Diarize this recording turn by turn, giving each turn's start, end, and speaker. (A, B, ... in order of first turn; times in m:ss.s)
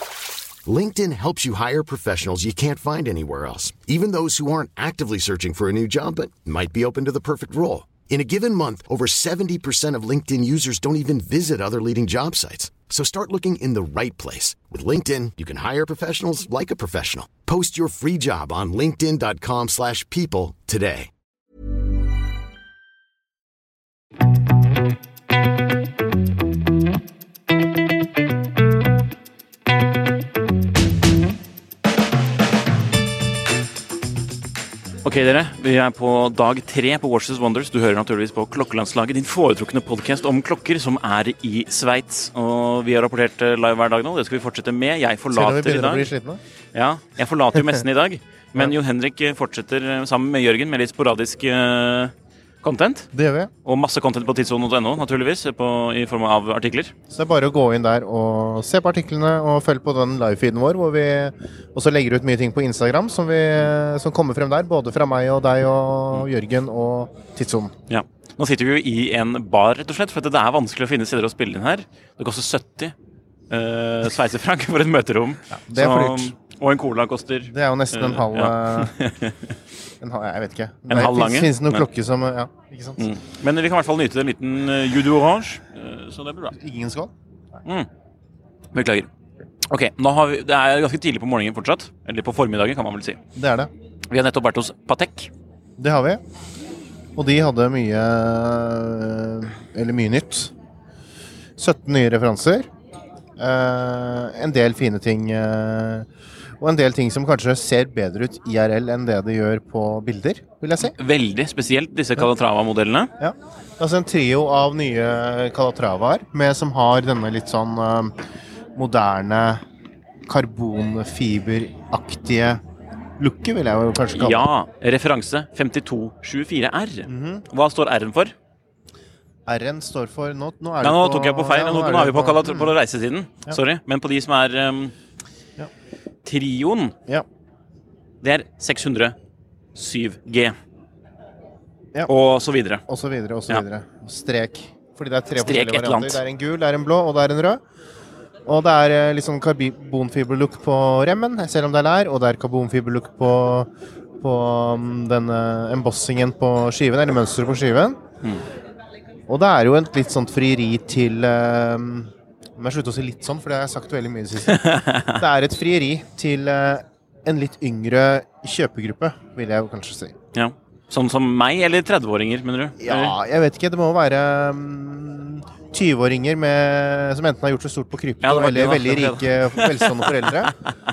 0:00.6-0:21.1 A
0:35.0-0:46.1 B
0:45.3-0:46.4 C
0:46.7-0:53.1 B
0:53.1-0:53.5 C
0:53.6-0:56.9 B
0:57.1-1:07.7 C
1:07.9-1:12.9 B
1:13.5-1:19.5 B
1:15.5-1:16.4 C
1:17.5-1:18.9 C
1:20.0-1:23.0 C
1:20.9-1:21.8 B
1:23.0-1:26.5 B
1:26.6-1:27.1 C
1:28.7-1:29.1 B
1:29.7-1:33.2 B
1:33.4-1:33.7 C
1:34.1-1:35.3 B
1:35.8-1:36.2 C
1:37.2-1:40.5 C
1:41.6-1:42.7 C
1:43.4-1:46.1 C
1:46.6-1:51.0 C
1:50.8-1:53.1 B
1:53.2-1:58.2 C
1:58.8-1:59.6 C
2:00.3-2:02.6 C
2:03.2-2:04.5 C
2:04.1-2:08.3 B
2:07.1-2:07.4 C
2:09.5-2:12.7 C
2:10.8-2:14.9 B
2:16.2-2:17.0 B
2:18.2-2:19.2 B
2:19.8-2:20.6 B
2:22.1-2:22.8 B
2:22.9-2:27.6 C
2:25.4-2:26.2 B
2:28.5-2:33.7 C
2:34.2-2:38.0 C
2:39.3-2:44.6 C
2:44.5-2:45.2 B
2:45.2-2:50.2 C
2:50.4-2:53.2 B
2:52.8-3:00.5 C
2:58.2-3:00.4 B